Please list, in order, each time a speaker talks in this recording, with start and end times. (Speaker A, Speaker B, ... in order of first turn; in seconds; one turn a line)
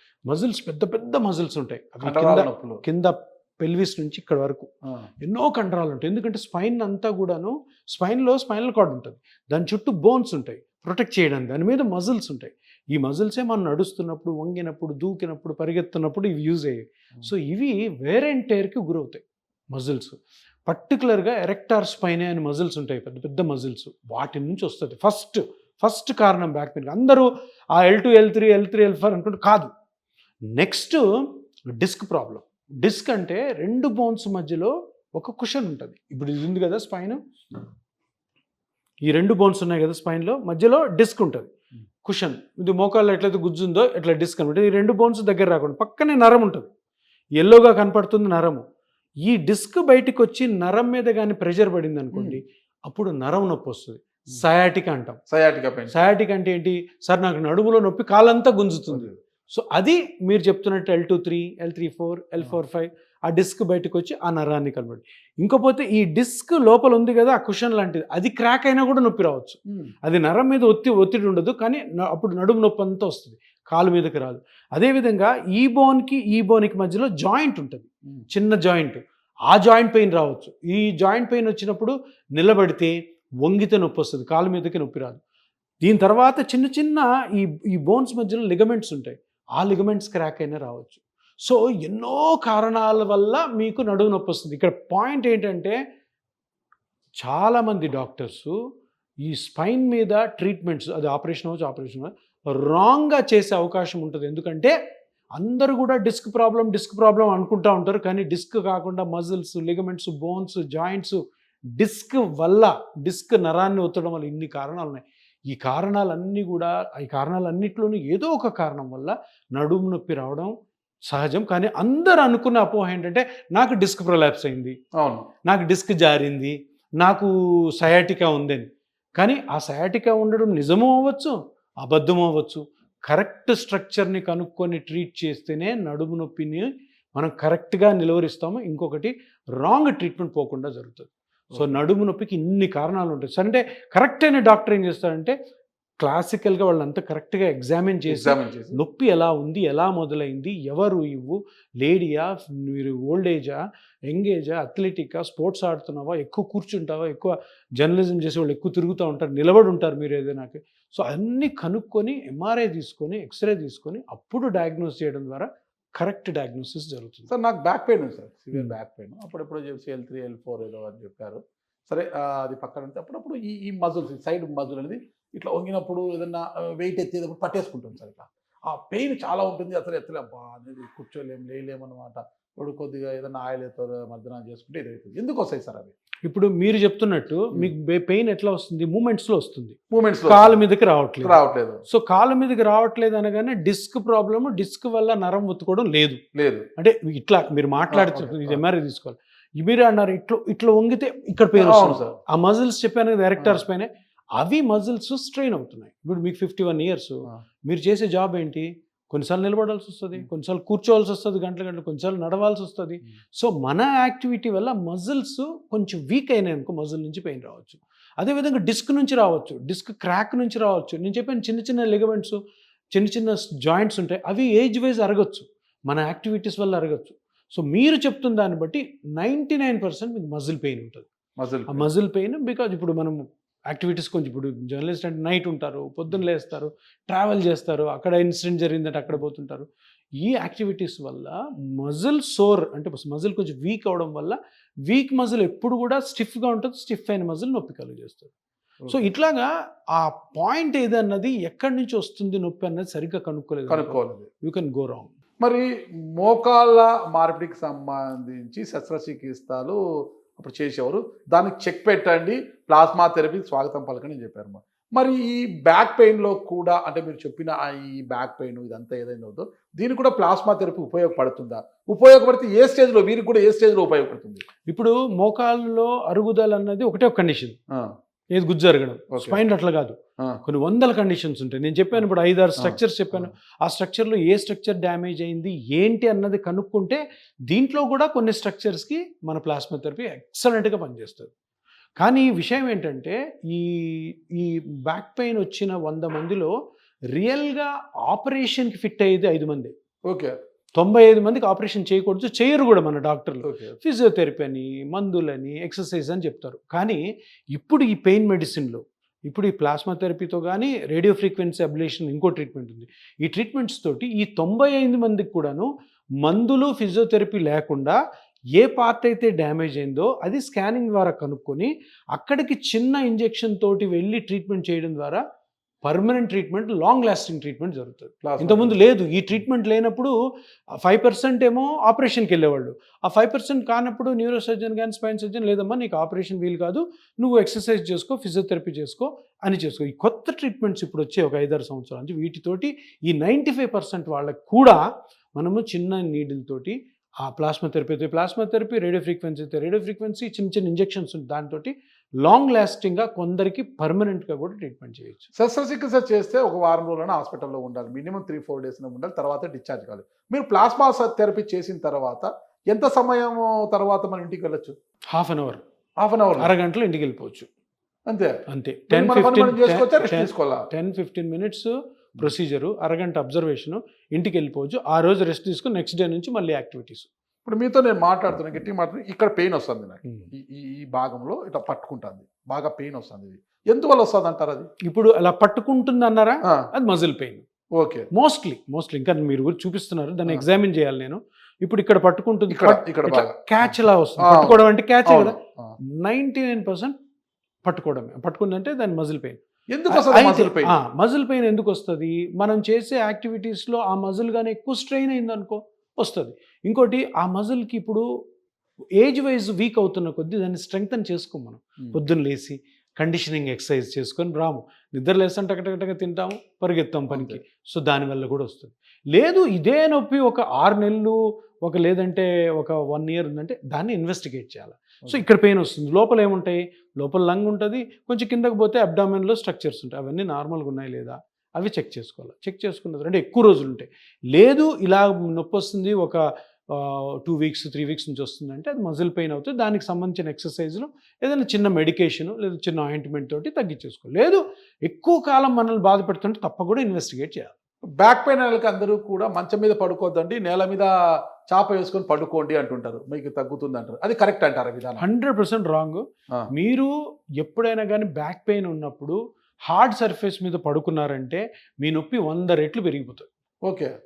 Speaker A: 0.3-4.7
Speaker B: 2.0-2.8
Speaker A: 5.2-29.7
Speaker A: 30.6-31.0
Speaker A: 31.7-37.2
Speaker A: 39.0-41.5
Speaker A: 42.0-46.7
Speaker A: 47.4-48.6
Speaker A: 49.2-55.2
Speaker B: 52.1-52.4
Speaker B: 55.3-56.1
Speaker A: 55.9-82.9
Speaker B: 58.9-59.1
Speaker A: 83.4-85.2
Speaker A: 85.8-95.8
Speaker A: 97.2-98.5
Speaker A: 99.2-104.7
Speaker A: 105.4-111.2
Speaker A: 111.8-120.5
Speaker A: 121.1-124.8
Speaker B: 125.0-125.2
Speaker A: 125.5-128.7
Speaker A: 129.2-145.3
Speaker B: 141.5-141.8
Speaker A: 146.0-165.5
Speaker B: 148.1-148.8
Speaker A: 166.0-167.3
Speaker B: 167.3-185.9
Speaker A: 186.3-189.8
Speaker B: 189.9-190.6
Speaker A: 190.3-196.2
Speaker B: 191.2-191.8
Speaker B: 196.3-196.7
Speaker A: 196.8-222.4
Speaker B: 197.9-198.6
Speaker B: 201.6-202.2
Speaker A: 222.9-231.1
Speaker B: 231.4-231.9
Speaker A: 231.7-239.7
Speaker A: 240.2-244.4
Speaker A: 244.9-248.3
Speaker B: 248.8-249.1
Speaker A: 248.9-255.1
Speaker B: 253.7-254.3
Speaker B: 255.4-259.8
Speaker B: 260.4-274.4
Speaker A: 274.7-277.6
Speaker A: 278.4-291.3
Speaker B: 279.1-279.4
Speaker B: 282.6-283.3
Speaker A: 292.0-296.5
Speaker A: 297.1-299.7
Speaker B: 300.1-300.3
Speaker A: 300.8-315.7
Speaker B: 303.5-303.8
Speaker A: 316.2-318.0
Speaker A: 318.6-325.2
Speaker A: 325.8-330.1
Speaker B: 328.2-328.8
Speaker A: 330.8-344.8
Speaker A: 345.4-355.3
Speaker B: 355.4-364.8
Speaker A: 365.1-365.6
Speaker B: 366.0-366.5
Speaker A: 366.4-367.5
Speaker B: 368.1-368.4
Speaker A: 368.5-377.1
Speaker B: 368.9-370.7
Speaker B: 377.4-384.7
Speaker A: 384.9-387.4
Speaker B: 387.7-388.1
Speaker A: 388.1-395.4
Speaker B: 392.5-395.7
Speaker A: 396.0-396.9
Speaker A: 397.6-408.0
Speaker B: 399.7-400.8
Speaker A: 409.0-447.5
Speaker B: 417.1-417.4
Speaker B: 448.0-450.9
Speaker B: 451.5-455.0
Speaker A: 455.0-459.2
Speaker A: 459.7-463.3
Speaker B: 463.6-463.9